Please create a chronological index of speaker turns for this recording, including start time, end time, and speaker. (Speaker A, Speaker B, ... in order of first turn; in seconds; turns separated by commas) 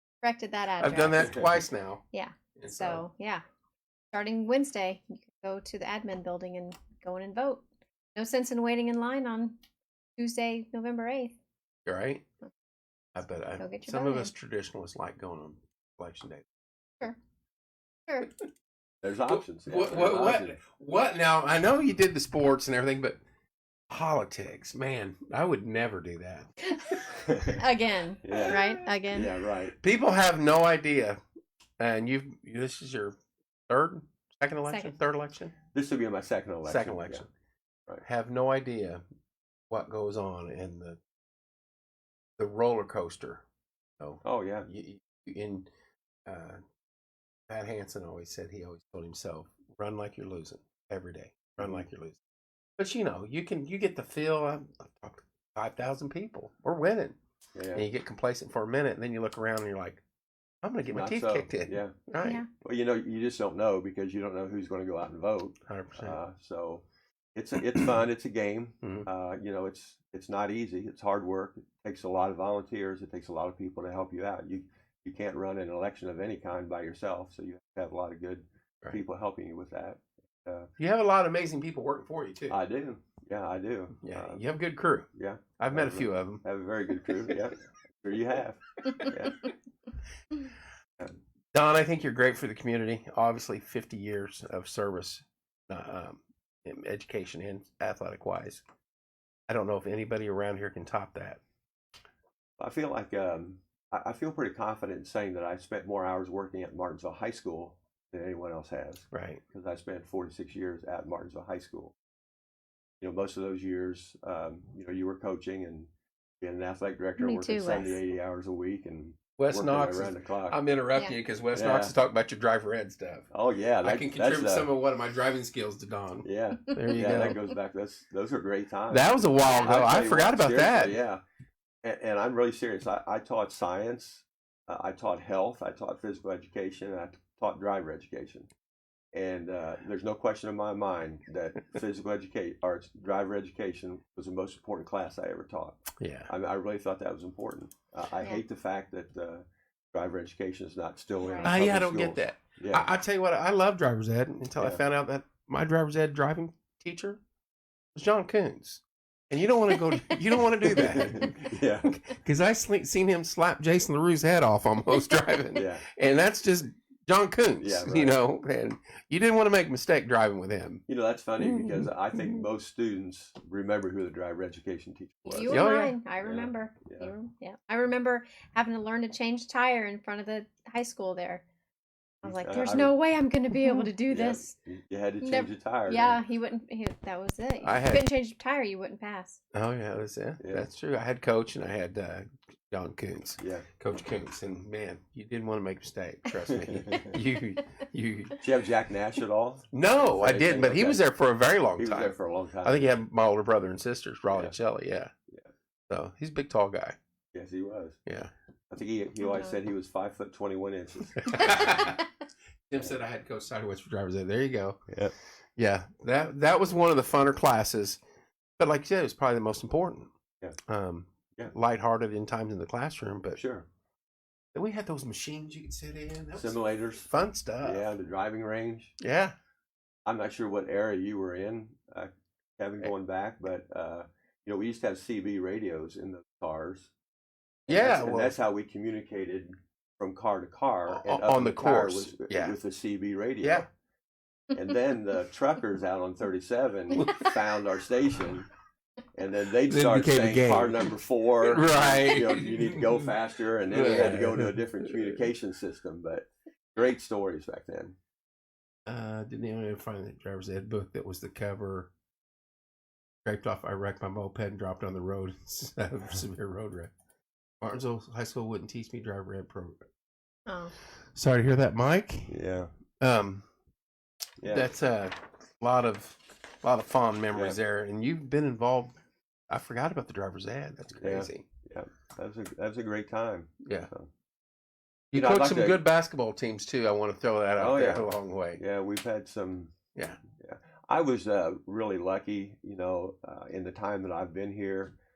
Speaker A: 0.2-1.3, Speaker B: 0.8-2.0, Speaker C: 1.1-1.5, Speaker A: 2.1-3.4, Speaker B: 2.5-3.0, Speaker A: 4.1-7.6, Speaker A: 8.1-9.6, Speaker A: 10.2-11.3, Speaker B: 11.8-12.2, Speaker B: 13.1-16.4, Speaker A: 13.6-14.3, Speaker C: 19.0-20.6, Speaker B: 19.3-23.2, Speaker B: 23.9-26.5, Speaker C: 27.1-27.6, Speaker A: 27.6-29.3, Speaker C: 28.2-29.8, Speaker B: 29.8-31.2, Speaker B: 31.8-33.1, Speaker B: 33.7-35.5, Speaker A: 34.6-35.0, Speaker C: 35.7-37.2, Speaker B: 36.6-37.3, Speaker B: 38.0-39.0, Speaker B: 39.7-41.0, Speaker B: 42.4-43.4, Speaker B: 44.0-45.7, Speaker C: 44.2-44.7, Speaker B: 46.3-46.6, Speaker B: 47.5-52.2, Speaker C: 51.6-51.9, Speaker B: 52.8-57.2, Speaker C: 57.5-57.8, Speaker B: 57.7-60.0, Speaker B: 60.6-62.4, Speaker C: 60.9-62.0, Speaker A: 62.2-62.5, Speaker C: 62.6-80.7, Speaker B: 65.7-66.2, Speaker B: 68.8-69.1, Speaker B: 80.8-82.6, Speaker C: 82.5-84.4, Speaker B: 84.0-86.4, Speaker C: 85.1-89.4, Speaker B: 91.5-98.6, Speaker B: 99.5-101.4, Speaker C: 102.6-111.9, Speaker B: 109.1-109.4, Speaker C: 113.0-115.9, Speaker C: 116.4-120.6, Speaker A: 117.2-118.0, Speaker B: 119.4-123.3, Speaker C: 121.5-121.9, Speaker C: 123.3-124.7, Speaker B: 123.8-127.4, Speaker C: 126.2-131.2, Speaker A: 127.0-127.2, Speaker B: 128.9-131.0, Speaker A: 129.4-129.8, Speaker C: 131.8-138.5, Speaker C: 139.1-152.9, Speaker B: 146.0-146.3, Speaker A: 151.2-151.5, Speaker B: 151.4-157.2, Speaker B: 157.9-170.8, Speaker C: 160.7-161.9, Speaker C: 165.5-165.8, Speaker C: 167.6-168.2, Speaker C: 170.9-175.6, Speaker B: 171.4-172.4, Speaker A: 175.2-181.4, Speaker B: 175.5-175.9, Speaker C: 176.2-177.1, Speaker C: 182.2-182.9, Speaker A: 182.2-184.5, Speaker C: 184.1-186.2, Speaker A: 185.2-189.4, Speaker B: 187.6-188.1, Speaker B: 189.5-198.4, Speaker C: 190.4-190.7, Speaker C: 193.4-193.7, Speaker C: 196.5-197.1, Speaker C: 198.4-201.0, Speaker B: 199.7-205.1, Speaker C: 201.8-202.9, Speaker C: 204.3-204.6, Speaker B: 205.9-206.9, Speaker C: 207.3-208.0, Speaker B: 208.1-208.3, Speaker C: 208.7-211.9, Speaker A: 209.2-209.6, Speaker B: 211.2-212.0, Speaker A: 211.3-211.9, Speaker B: 212.7-214.8, Speaker B: 215.6-218.0, Speaker B: 218.6-220.1, Speaker B: 220.7-223.4, Speaker C: 223.3-223.7, Speaker B: 224.5-227.9, Speaker C: 226.3-228.9, Speaker B: 229.0-229.3, Speaker C: 230.0-236.9, Speaker C: 237.7-243.7, Speaker B: 237.7-238.4, Speaker B: 240.9-242.6, Speaker B: 243.4-243.7, Speaker C: 244.5-248.5, Speaker B: 246.9-247.3, Speaker C: 249.2-257.9, Speaker B: 249.7-253.1, Speaker B: 253.7-255.2, Speaker B: 258.9-261.9, Speaker B: 263.2-266.9, Speaker B: 267.6-269.8, Speaker A: 270.5-270.7, Speaker B: 271.1-272.4, Speaker C: 272.3-272.7, Speaker B: 273.0-273.4, Speaker C: 274.4-274.7, Speaker B: 274.5-279.0, Speaker C: 277.3-277.6, Speaker B: 279.5-281.4, Speaker C: 281.0-284.1, Speaker B: 283.6-283.9, Speaker B: 285.1-288.6, Speaker C: 285.1-285.8, Speaker C: 287.6-289.7, Speaker C: 290.4-294.9